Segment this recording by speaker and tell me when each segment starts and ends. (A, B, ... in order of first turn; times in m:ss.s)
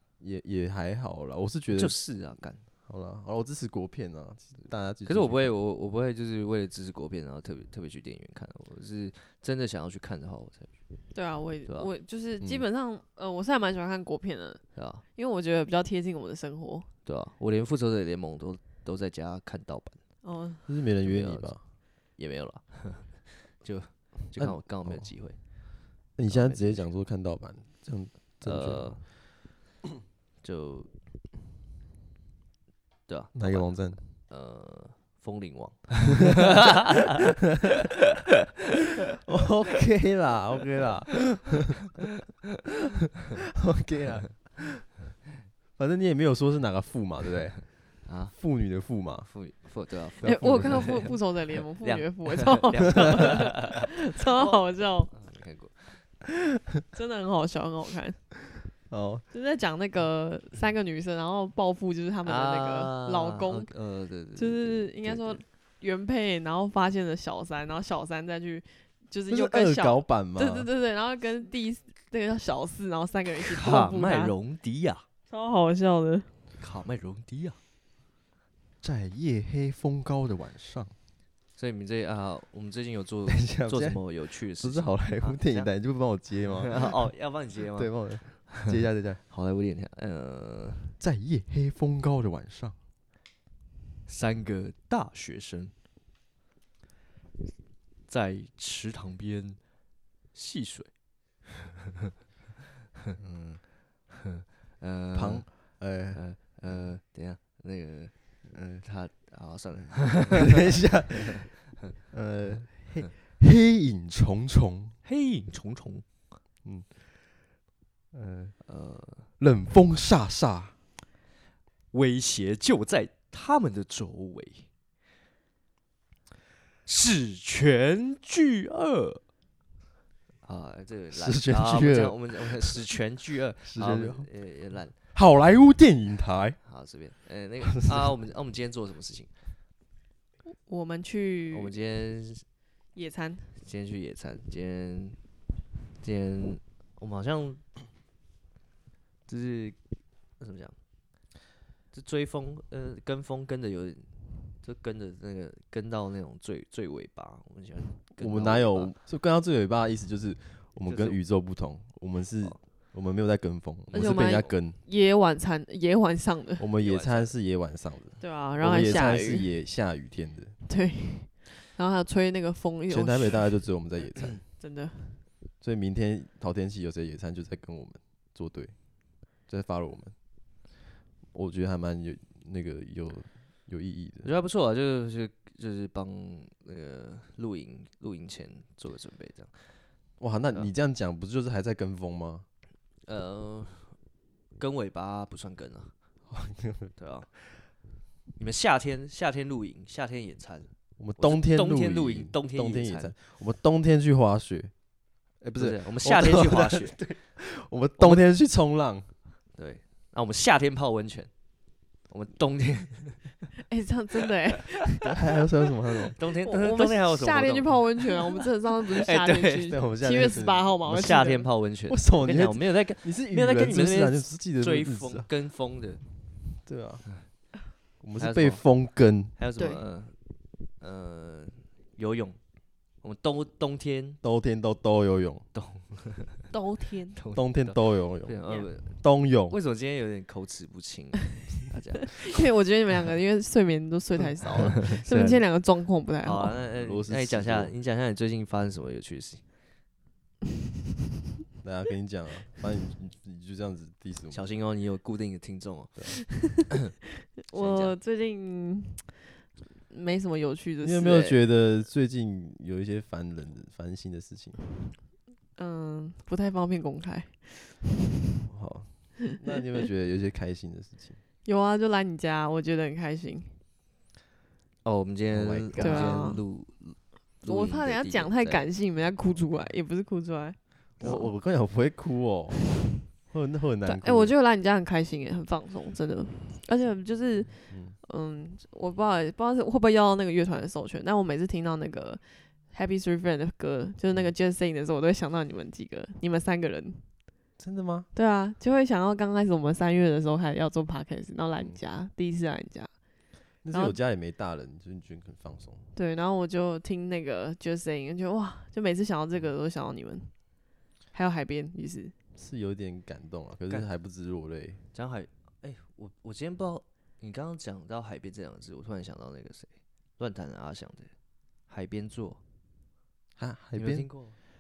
0:00.2-0:02.0 A
0:01.7-0:02.6 B
0:02.8-0:05.5 A
0:05.0-0:10.7 B
0:11.1-0:16.9 C
0:12.4-0:12.7 A
0:14.8-0:15.0 B
0:17.0-0:20.0 B
0:20.2-0:20.6 C
0:20.7-0:21.6 A
0:21.0-0:21.6 B
0:22.2-0:25.4 B
0:24.4-0:25.1 A
0:26.2-0:29.0 A
0:26.3-0:26.9 B
0:28.4-0:29.0 B
0:30.4-0:30.9 B
0:33.1-0:37.0 B
0:33.4-0:34.1 A
0:39.2-0:41.8 A
0:43.4-0:45.0 A
0:45.8-0:47.8 A
0:48.1-0:48.4 B
0:48.3-0:49.3 A
0:49.3-0:51.2 B
0:50.2-0:51.0 A
0:50.2-0:55.1 C
0:51.8-0:56.0 B
0:56.9-0:58.2 C
0:58.9-0:59.2 A
0:59.3-1:03.7 C
1:02.2-1:05.4 B
1:04.4-1:14.3 C
1:09.3-1:10.7 A
1:13.4-1:15.0 B
1:15.3-1:16.3 C
1:16.6-1:17.6 B
1:18.8-1:21.0 A
1:21.6-1:25.7 B
1:23.3-1:24.0 A
1:24.6-1:26.9 A
1:26.6-1:28.7 B
1:27.8-1:29.2 A
1:29.3-1:30.9 B
1:31.0-1:32.8 A
1:34.1-1:35.7 B
1:38.1-1:39.6 B
1:40.3-1:40.9 B
1:43.2-1:43.6 A
1:44.1-1:50.6 B
1:45.1-1:46.2 A
1:48.5-1:48.8 A
1:50.3-1:55.0 A
1:51.1-1:51.6 B
1:55.0-1:56.0 B
1:56.6-1:57.0 A
1:58.1-1:58.6 A
1:58.7-1:59.3 B
1:59.4-2:00.7 A
2:01.9-2:04.7 B
2:06.9-2:09.2 B
2:10.4-2:14.9 B
2:11.1-2:12.8 A
2:13.6-2:14.3 A
2:15.1-2:16.6 A
2:16.6-2:19.3 B
2:17.6-2:18.1 A
2:20.6-2:21.7 C
2:21.5-2:22.4 B
2:23.0-2:23.5 C
2:23.6-2:25.2 B
2:26.0-2:27.6 B
2:29.3-2:29.8 B
2:30.4-2:30.8 B
2:31.9-2:34.1 B
2:34.6-2:38.9 B
2:38.2-2:44.8 A
2:40.9-2:41.2 B
2:43.9-2:44.5 B
2:43.9-2:46.6 C
2:46.6-2:50.6 A
2:46.8-2:47.3 B
2:48.2-2:49.5 C
2:50.7-2:53.5 C
2:52.9-2:54.4 A
2:54.6-2:55.2 C
2:55.6-2:58.8 A
2:59.5-3:00.2 A
3:01.3-3:04.3 A
3:04.2-3:09.7 B
3:10.2-3:12.4 A
3:13.0-3:14.0 B
3:14.6-3:15.9 B
3:16.3-3:17.0 A
3:17.0-3:17.3 B
3:18.4-3:23.1 B
3:21.0-3:24.7 A
3:25.4-3:29.1 A
3:25.6-3:27.1 B
3:28.0-3:28.2 B
3:29.6-3:31.3 B
3:32.1-3:33.4 B
3:33.7-3:35.1 C
3:35.0-3:36.2 A
3:36.2-3:38.2 B
3:36.4-3:41.5 C
3:38.8-3:39.8 B
3:39.7-3:40.7 A
3:40.8-3:46.0 B
3:41.9-3:45.3 A
3:46.6-3:47.1 A
3:48.0-3:49.3 A
3:48.2-3:48.7 B
3:49.4-3:50.2 B
3:49.6-3:49.8 C
3:50.8-3:52.4 B
3:53.0-3:54.2 B
3:54.2-3:55.4 A
3:55.5-3:56.5 B
3:56.5-3:57.2 C
3:57.2-4:02.4 B
3:57.3-3:59.6 A
4:02.2-4:06.6 C
4:04.8-4:05.4 B
4:06.2-4:09.4 B
4:06.8-4:07.7 A
4:11.6-4:14.4 A
4:14.3-4:16.7 B
4:17.5-4:19.1 C
4:17.5-4:18.0 B
4:19.9-4:21.4 C
4:20.8-4:24.6 A
4:25.6-4:27.8 C
4:28.5-4:31.2 A
4:31.4-4:33.6 C
4:34.8-4:38.7 B
4:35.3-4:36.3 A
4:35.8-4:36.4 C
4:37.4-4:41.3 C
4:41.0-4:44.3 A
4:43.8-4:57.1 C
4:47.7-4:48.0 A
4:57.6-4:58.1 A
4:58.1-5:02.9 C
5:03.6-5:05.8 A
5:03.7-5:04.0 C
5:06.0-5:10.6 C
5:11.1-5:12.1 C
5:12.4-5:14.8 A
5:14.9-5:21.1 B
5:21.7-5:22.4 B
5:23.4-5:24.1 A
5:23.8-5:24.4 B